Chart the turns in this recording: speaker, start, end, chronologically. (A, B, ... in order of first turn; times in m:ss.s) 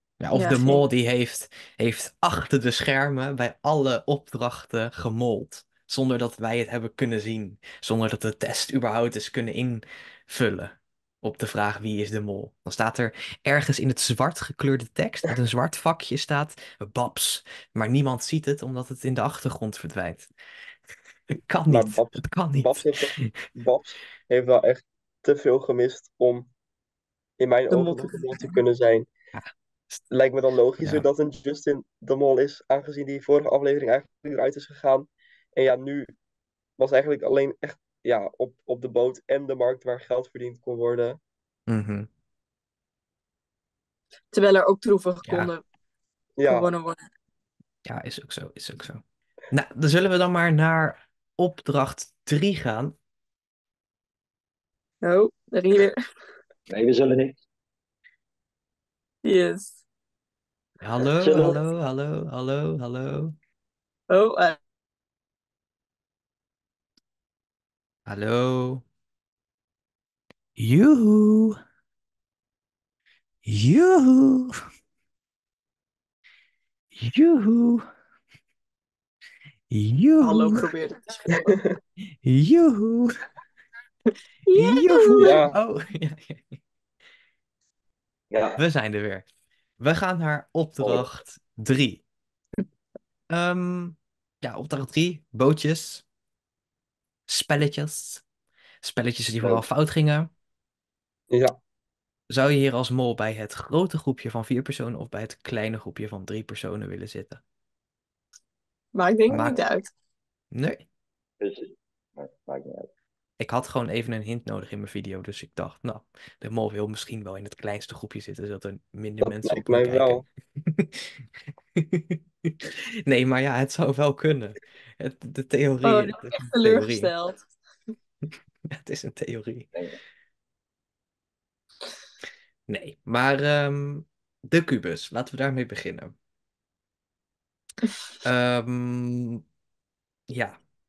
0:00.2-0:20.3 A
0:00.3-0:00.8 B
0:21.3-0:23.3 A
0:21.7-0:26.5 C
0:27.4-0:29.1 C
0:27.7-0:28.1 B
0:29.3-0:30.0 A
0:30.1-0:36.1 C
0:36.8-0:41.2 C
0:41.7-0:42.1 A
0:44.3-0:45.6 B
0:45.3-0:45.5 A
0:46.4-0:46.7 C
0:46.4-0:47.0 B
0:47.8-0:52.9 A
0:55.0-0:56.0 B
0:56.7-0:57.4 D
0:59.2-0:59.8 B
1:00.8-1:03.3 A
1:01.2-1:01.6 D
1:04.1-1:04.6 B
1:08.0-1:08.8 A
1:10.6-1:11.6 A
1:13.4-1:14.6 A
1:16.9-1:17.8 A
1:19.7-1:20.7 A
1:20.2-1:21.5 B
1:22.2-1:23.2 A
1:24.4-1:25.4 B
1:24.5-1:26.6 A
1:25.2-1:25.5 C
1:28.3-1:28.6 D
1:28.6-1:29.2 A
1:29.8-1:32.0 A
1:30.8-1:31.0 D
1:33.3-1:36.0 A
1:37.3-1:38.2 A
1:38.8-1:40.3 A
1:41.3-1:41.6 C
1:42.3-1:47.4 A
1:48.9-1:49.9 B
1:49.3-1:49.6 A
1:50.5-1:50.8 A
1:51.4-1:52.9 D
1:53.4-2:07.1 A
1:59.2-2:00.2 C
2:05.8-2:07.4 B
2:08.7-2:09.7 A
2:12.7-2:16.1 A
2:18.2-2:19.4 A
2:20.3-2:20.6 A